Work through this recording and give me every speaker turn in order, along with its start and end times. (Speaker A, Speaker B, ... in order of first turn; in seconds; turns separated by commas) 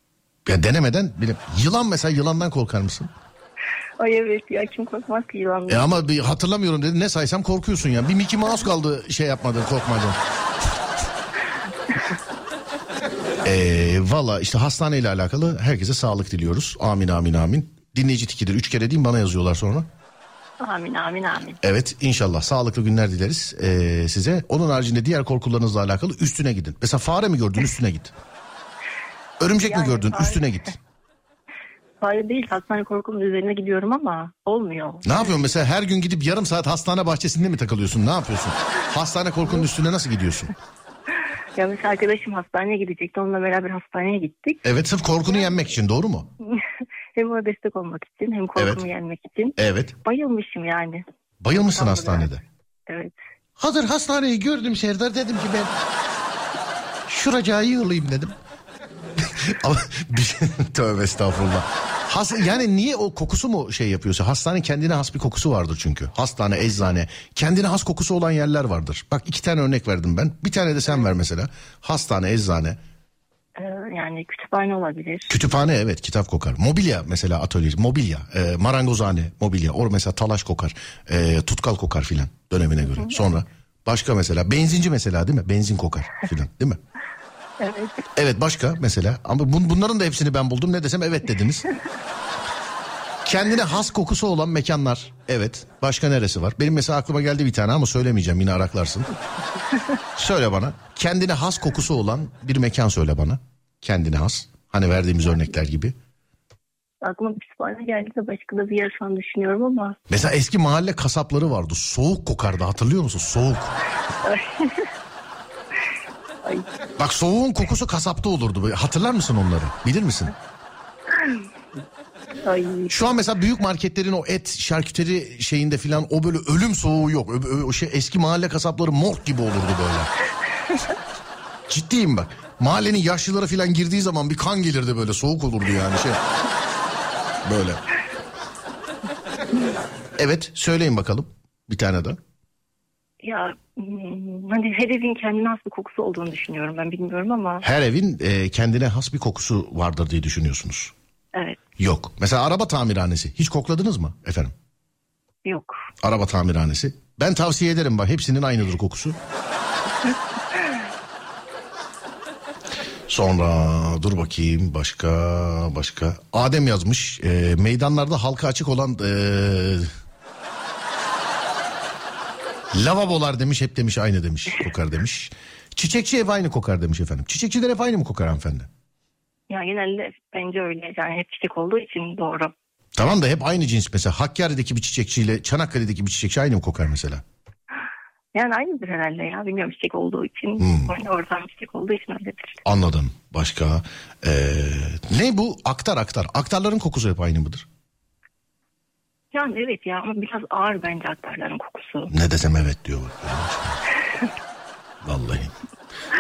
Speaker A: 0.5-3.1, Speaker B: 4.0-5.9, Speaker A: 5.7-10.2, Speaker A: 13.4-19.9, Speaker B: 20.6-21.6, Speaker A: 21.6-28.1, Speaker A: 29.4-30.8, Speaker B: 29.6-30.4, Speaker B: 32.0-35.3, Speaker A: 35.0-40.5, Speaker B: 41.5-44.6, Speaker A: 44.6-46.3, Speaker B: 47.1-51.0, Speaker A: 48.6-48.8, Speaker A: 49.6-49.9, Speaker A: 51.4-52.4, Speaker B: 51.6-53.1, Speaker A: 53.6-55.7, Speaker A: 57.1-58.4, Speaker A: 59.2-72.8, Speaker B: 73.5-75.6, Speaker A: 75.3-86.8, Speaker B: 83.0-83.3, Speaker B: 87.6-88.0, Speaker A: 88.2-91.6, Speaker A: 93.2-99.1, Speaker A: 100.2-105.9, Speaker B: 107.0-110.0, Speaker A: 110.1-113.7, Speaker B: 114.2-114.9, Speaker A: 117.0-120.3, Speaker B: 122.4-123.0, Speaker A: 122.9-130.1, Speaker A: 131.7-136.2, Speaker A: 137.4-137.8, Speaker A: 140.2-142.2, Speaker B: 143.2-147.6, Speaker A: 147.6-150.9, Speaker A: 151.8-154.5, Speaker B: 155.4-155.7, Speaker A: 156.0-159.2, Speaker B: 160.1-160.7, Speaker A: 163.1-169.9, Speaker A: 172.7-178.7, Speaker B: 179.5-182.5, Speaker A: 183.0-187.2, Speaker B: 188.3-192.6, Speaker A: 190.6-190.9, Speaker A: 192.6-197.7, Speaker B: 199.3-202.1, Speaker A: 202.1-203.8, Speaker A: 205.0-205.5